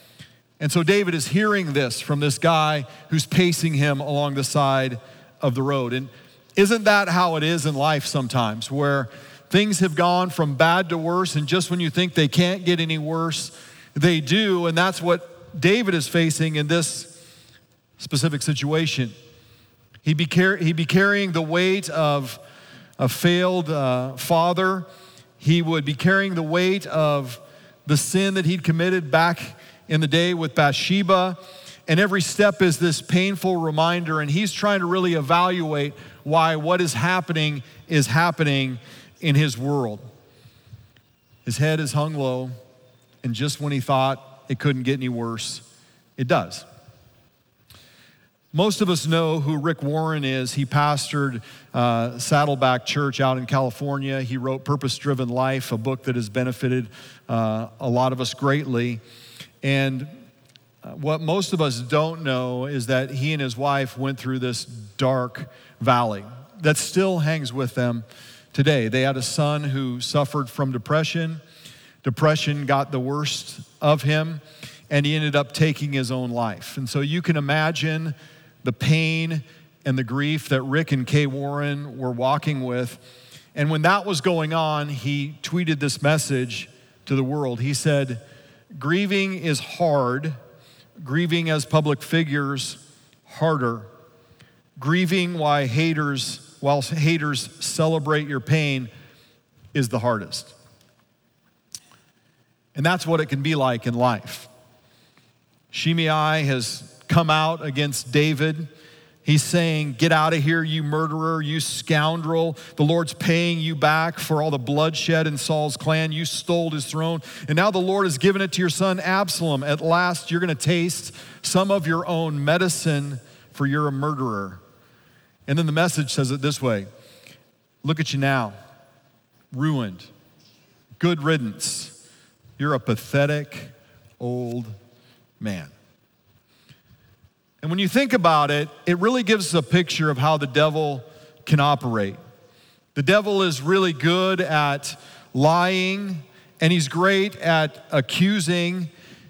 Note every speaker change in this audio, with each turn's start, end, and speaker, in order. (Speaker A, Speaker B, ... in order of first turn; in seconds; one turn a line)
Speaker A: 0.6-17.2
Speaker A: 18.0-19.1
Speaker A: 20.0-22.4
Speaker A: 23.0-24.9
Speaker A: 25.4-40.1
Speaker A: 41.5-42.5
Speaker A: 43.2-45.6
Speaker A: 46.2-46.6
Speaker A: 48.5-59.0
Speaker A: 59.6-60.1
Speaker A: 60.8-71.4
Speaker A: 72.0-83.0
Speaker A: 83.5-88.2
Speaker A: 88.8-90.4
Speaker A: 91.0-93.9
Speaker A: 94.8-98.9
Speaker A: 99.7-100.5
Speaker A: 102.8-104.5
Speaker A: 105.7-108.7
Speaker A: 109.2-124.6
Speaker A: 125.5-126.9
Speaker A: 127.8-128.6
Speaker A: 129.5-130.1
Speaker A: 131.0-132.0
Speaker A: 132.6-134.8
Speaker A: 135.4-135.7
Speaker A: 137.6-142.2
Speaker A: 142.9-148.9